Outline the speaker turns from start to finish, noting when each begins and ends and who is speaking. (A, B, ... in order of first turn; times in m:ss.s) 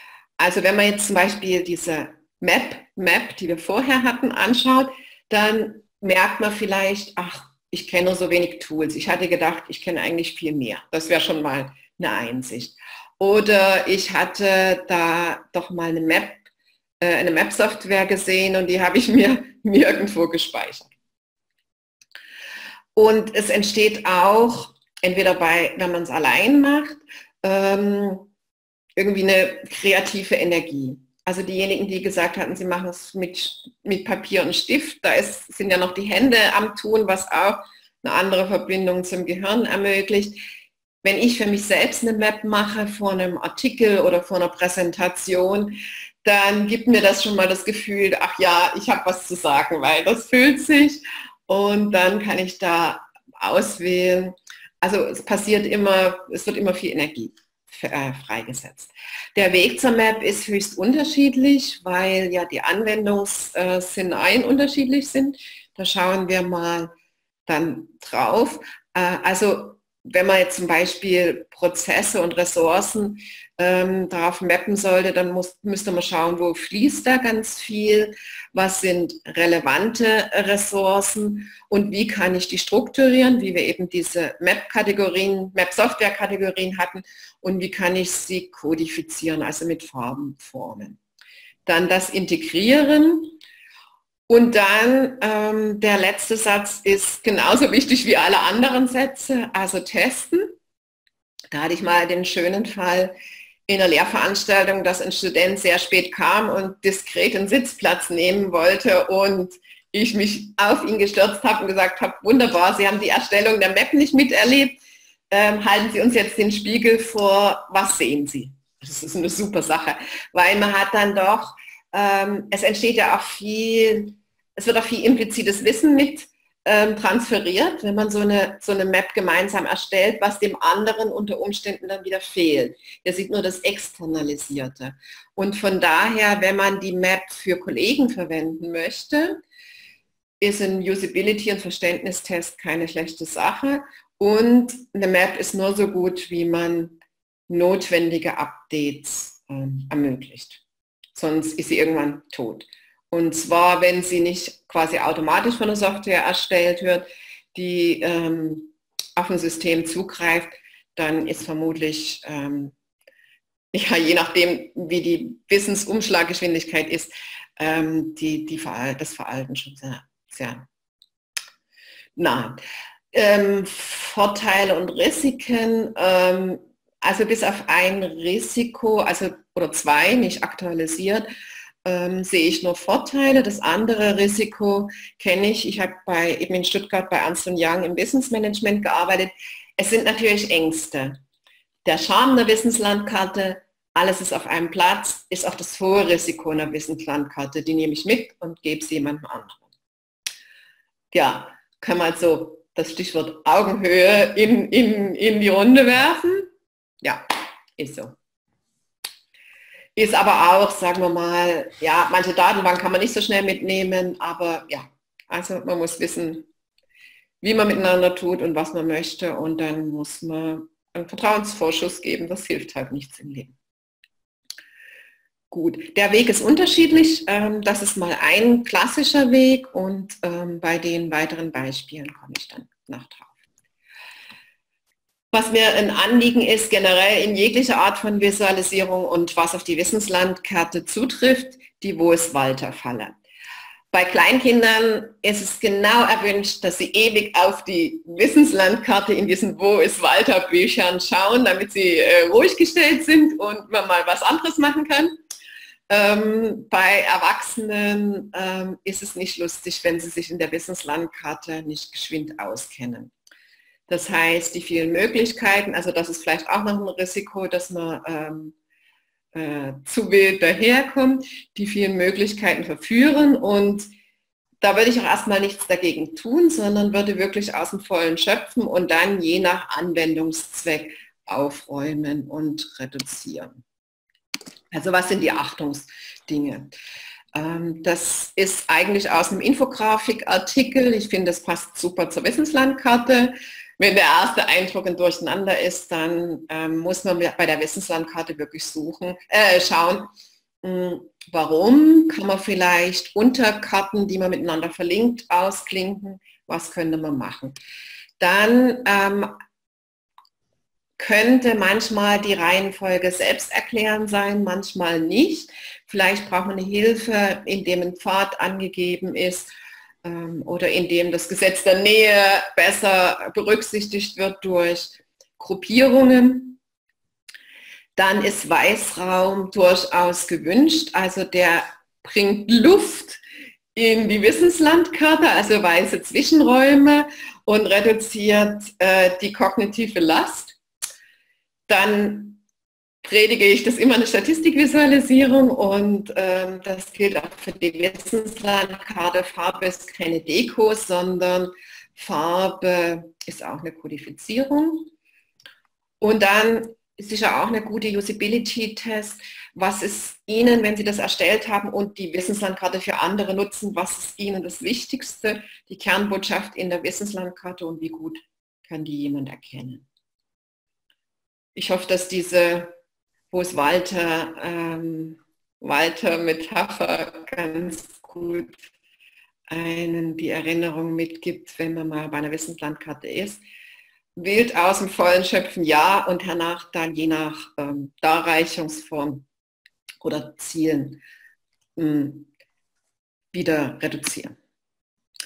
0:00.4-0:16.4 A
0:17.0-0:20.9 A
0:23.0-0:28.3 A
0:29.0-0:40.4 A
0:41.0-1:06.9 A
1:07.5-1:31.0 A
1:31.7-1:33.4 A
1:34.3-1:40.5 A
1:41.5-1:43.2 A
1:43.7-1:54.8 A
1:55.3-2:19.4 A
2:20.4-2:27.0 A
2:27.5-2:30.6 A
2:31.2-2:42.7 A
2:43.7-2:50.7 A
2:52.2-2:52.6 A
2:53.1-3:01.3 A
3:01.8-3:11.2 A
3:11.8-3:19.6 A
3:21.1-3:26.5 A
3:27.8-3:28.2 A
3:30.0-3:36.4 A
3:37.4-3:43.5 A
3:45.5-3:53.3 A
3:55.3-4:03.2 A
4:03.9-4:15.1 A
4:15.9-4:23.1 A
4:23.9-4:28.6 A
4:29.3-4:33.9 A
4:34.6-4:43.6 A
4:44.7-4:46.7 A
4:47.3-5:00.1 A
5:00.6-5:07.6 A
5:08.2-5:09.4 A
5:11.0-5:19.5 A
5:20.0-5:26.6 A
5:28.0-5:33.2 A
5:33.8-5:40.6 A
5:41.7-5:42.4 A
5:43.0-5:54.9 A
5:56.0-6:09.8 A
6:11.6-6:12.7 A
6:13.3-6:18.6 A
6:19.5-6:23.4 A
6:24.2-6:29.2 A
6:30.0-6:31.0 A
6:31.8-6:32.3 A
6:33.3-6:34.4 A